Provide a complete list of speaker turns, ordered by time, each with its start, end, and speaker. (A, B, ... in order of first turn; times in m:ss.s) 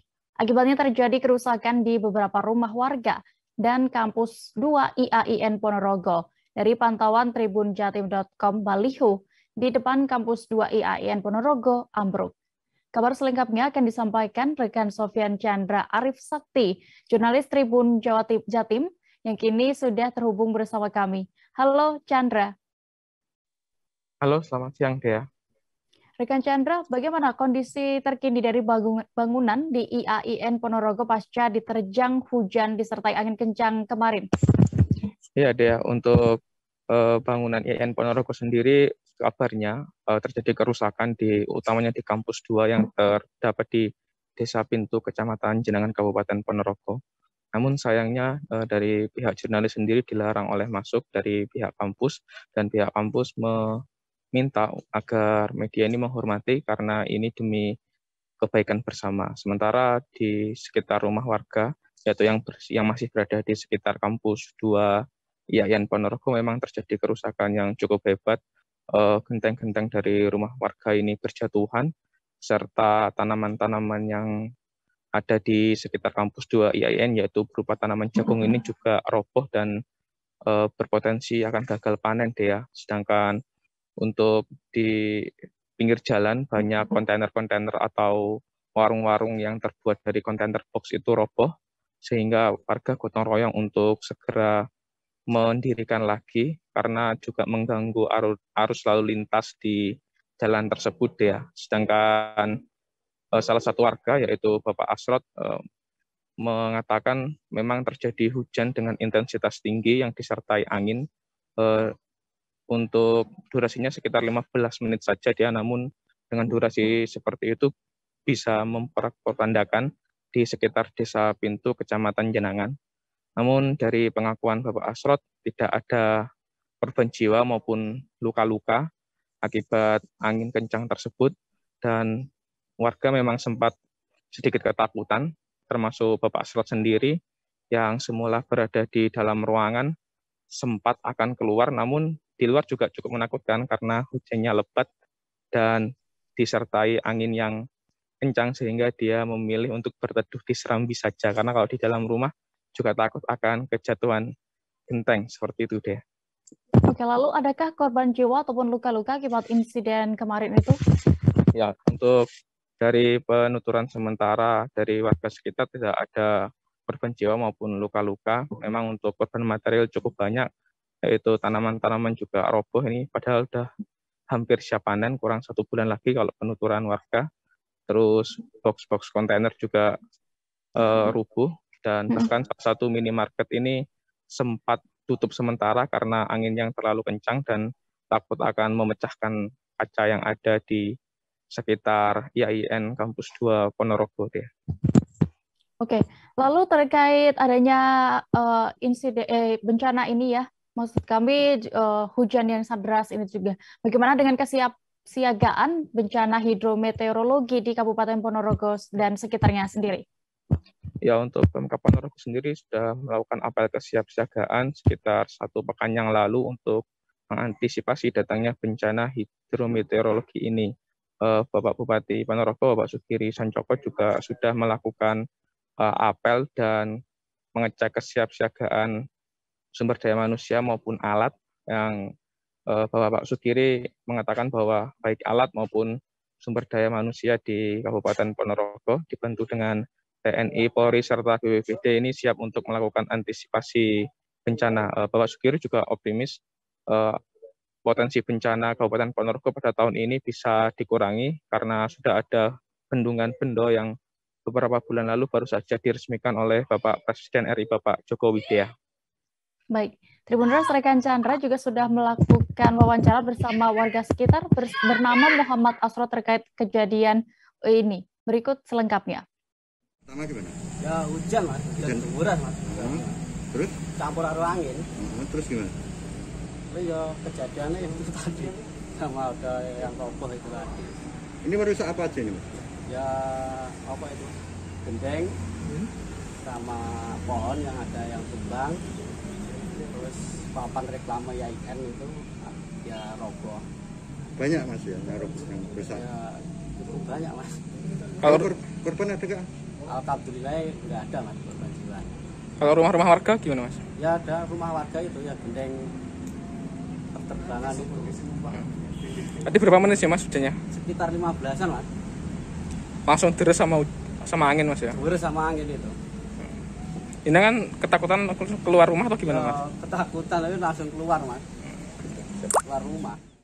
0:00.4-0:12.3 A
0:12.9-0:22.5 A
0:24.2-0:25.2 B
0:26.2-0:34.3 A
0:35.4-0:36.4 B
0:36.9-0:47.0 B
0:47.6-0:53.8 B
0:54.4-0:57.7 B
0:58.4-1:05.0 B
1:05.5-1:08.4 B
1:08.9-1:11.9 B
1:12.4-1:14.3 B
1:15.2-1:19.8 B
1:20.5-1:23.4 B
1:24.0-1:31.5 B
1:32.0-1:34.6 B
1:35.3-1:42.6 B
1:43.3-1:45.6 B
1:46.4-1:51.0 B
1:51.6-1:52.0 B
1:52.7-1:57.7 B
1:58.3-2:02.7 B
2:03.4-2:06.1 B
2:06.8-2:08.9 B
2:09.4-2:12.1 B
2:12.8-2:13.7 B
2:14.3-2:17.2 B
2:17.7-2:19.9 B
2:20.6-2:24.9 B
2:25.5-2:25.8 B
2:26.4-2:27.6 B
2:28.2-2:34.2 B
2:34.9-2:36.0 B
2:36.9-2:40.8 A
2:41.6-2:42.2 B
2:42.8-2:46.3 B
2:46.9-2:50.5 B
2:51.0-2:53.7 B
2:54.3-2:57.3 B
2:57.9-2:59.9 B
3:00.8-3:03.8 B
3:04.4-3:10.9 B
3:11.5-3:14.5 B
3:15.8-3:30.0 A
3:31.0-3:40.7 B
3:41.2-3:45.2 B
3:45.8-3:46.9 B
3:47.6-3:49.0 B
3:49.7-3:52.1 B
3:52.7-4:07.2 B
4:07.9-4:13.9 B
4:14.5-4:18.7 B
4:19.7-4:29.2 A
4:30.1-4:30.6 C
4:30.8-4:33.2 D
4:31.8-4:32.1 C
4:32.7-4:33.8 C
4:34.0-4:34.8 D
4:35.0-4:35.8 C
4:36.7-4:41.0 D
4:41.4-4:42.5 C
4:42.9-4:45.4 D
4:46.4-4:48.8 D
4:49.8-4:53.6 D
4:54.4-4:56.0 C
4:55.9-4:57.6 D
4:58.2-4:58.5 B
4:58.2-4:59.5 C
4:59.9-5:02.2 D
5:02.6-5:03.8 B
5:04.0-5:05.9 D
5:07.1-5:08.5 D
5:09.3-5:10.6 B
5:10.7-5:11.9 D
5:13.1-5:15.0 B
5:14.9-5:16.0 D
5:17.3-5:19.6 B
5:19.2-5:21.4 D
5:22.6-5:23.2 D